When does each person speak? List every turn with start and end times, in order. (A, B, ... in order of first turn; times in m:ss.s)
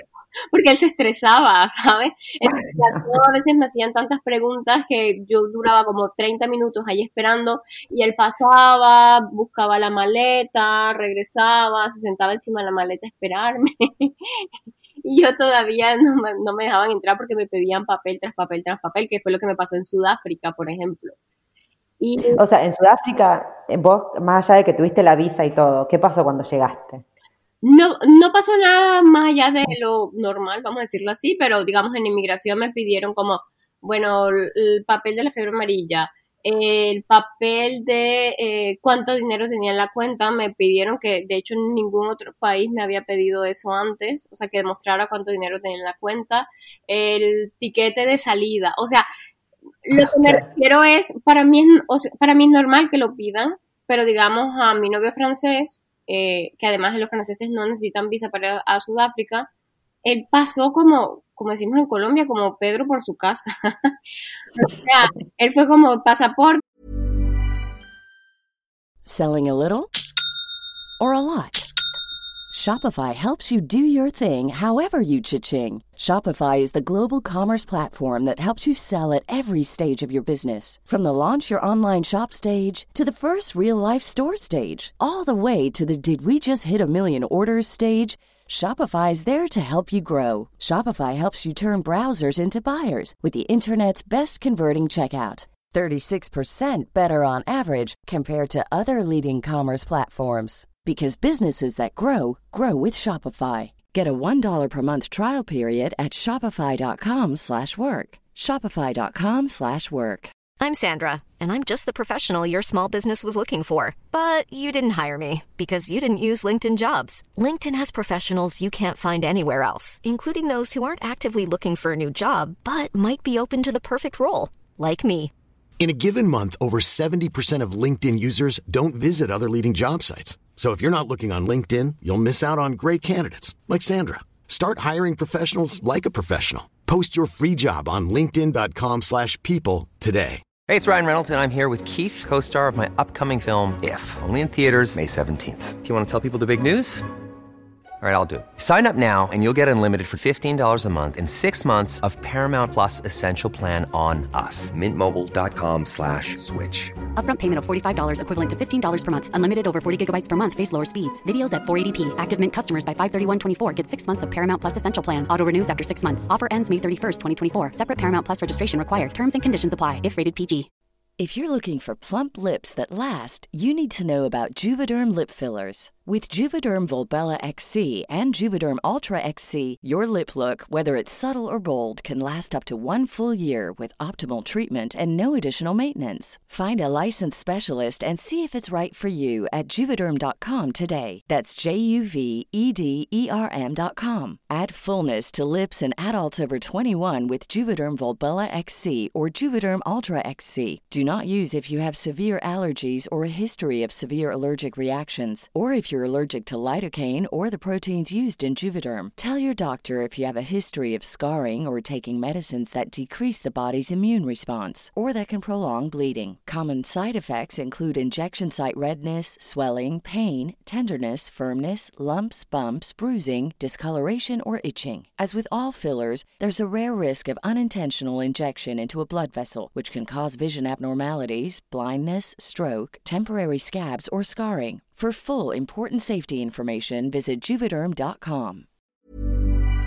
0:00.5-0:14.5 A
0:02.4-0:03.2 B
0:15.0-0:21.1 A
0:22.0-0:22.4 A
0:22.3-0:27.0 B
0:27.6-0:49.1 A
0:49.9-0:59.5 A
0:50.0-0:50.4 B
1:00.0-1:03.9 A
1:04.5-1:06.6 A
1:09.1-1:09.9 C
1:11.0-1:11.6 C
1:12.5-1:50.3 C
1:50.6-2:05.3 D
2:05.8-2:20.4 E
2:20.7-2:27.0 F
2:28.0-2:37.0 F
2:37.1-2:50.7 G
2:51.2-3:58.7 C